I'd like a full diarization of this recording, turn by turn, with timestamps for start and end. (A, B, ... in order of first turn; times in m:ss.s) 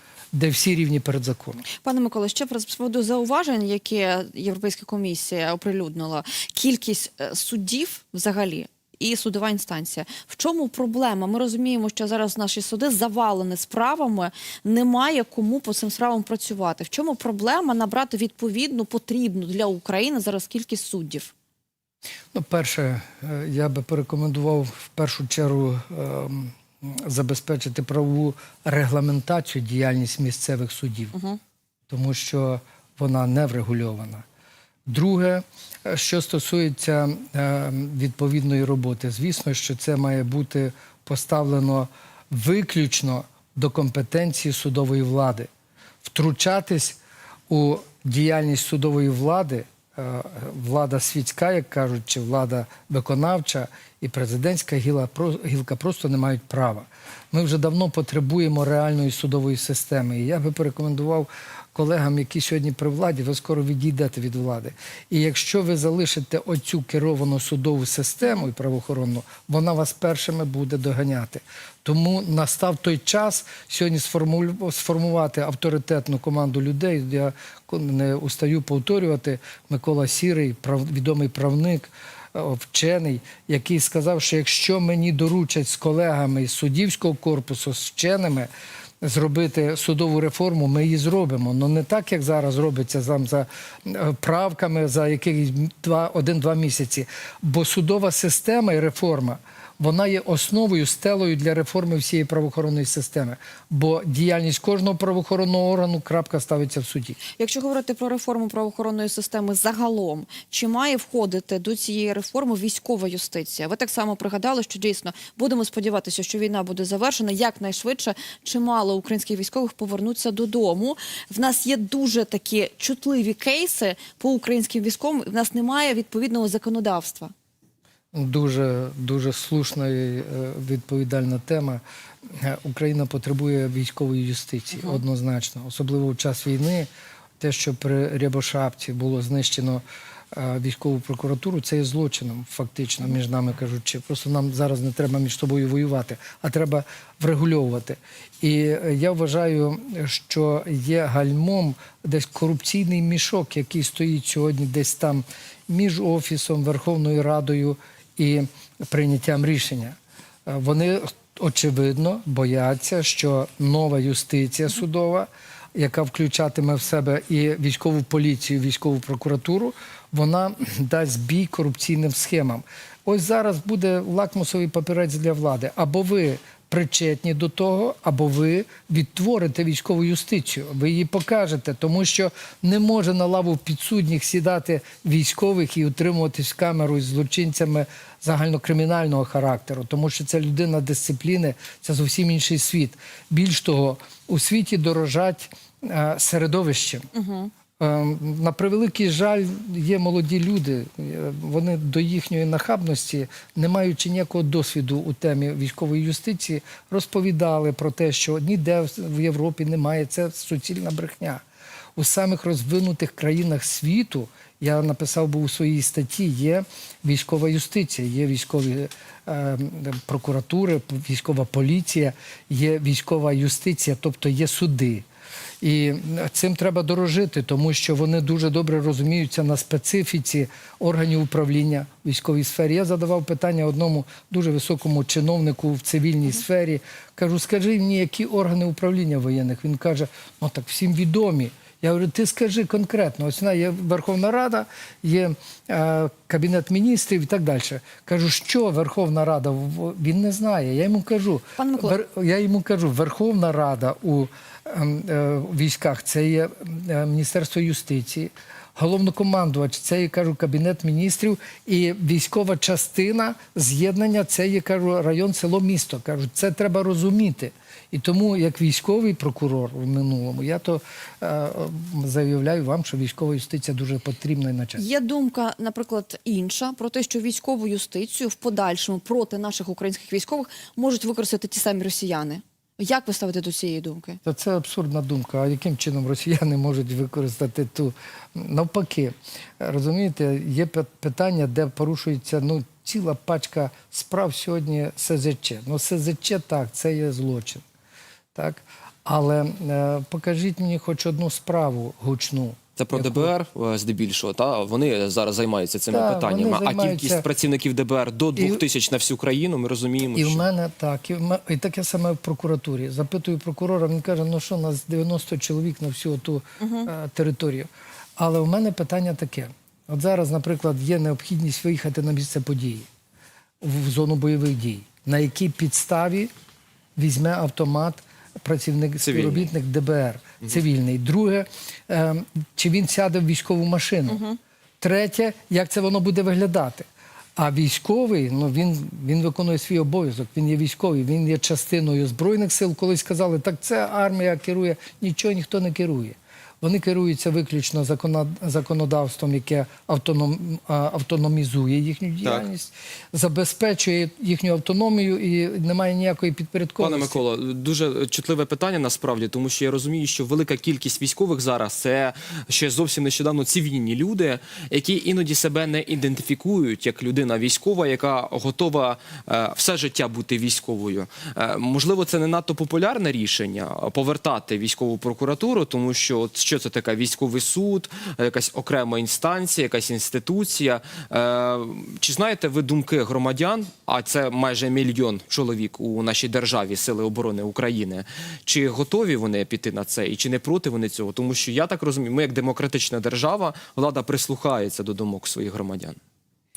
0:00.3-0:01.6 A
0:01.8-0:21.3 B
0:22.3-0:31.2 A
0:31.9-0:34.2 A
0:34.9-0:45.5 A
0:46.0-0:47.0 A
0:47.5-1:28.5 A
1:29.0-1:47.2 A
1:47.4-2:07.3 B
2:08.1-2:11.8 A
2:12.4-2:16.9 A
2:17.4-2:40.0 A
2:40.5-3:17.1 A
3:17.2-3:17.5 B
3:17.8-3:31.4 A
3:32.0-3:45.0 A
3:45.6-4:34.8 A
4:11.6-4:12.0 B
4:34.8-4:44.2 B
4:44.2-4:57.6 A
4:58.4-5:03.3 A
5:02.8-5:10.4 C
5:05.9-5:07.2 A
5:08.4-5:08.6 A
5:10.2-5:22.9 A
5:16.6-5:16.9 B
5:23.6-5:26.3 A
5:27.0-5:34.2 A
5:29.0-5:29.5 C
5:34.1-5:34.4 B
5:34.8-5:36.8 A
5:37.4-5:57.2 A
5:56.8-6:36.0 C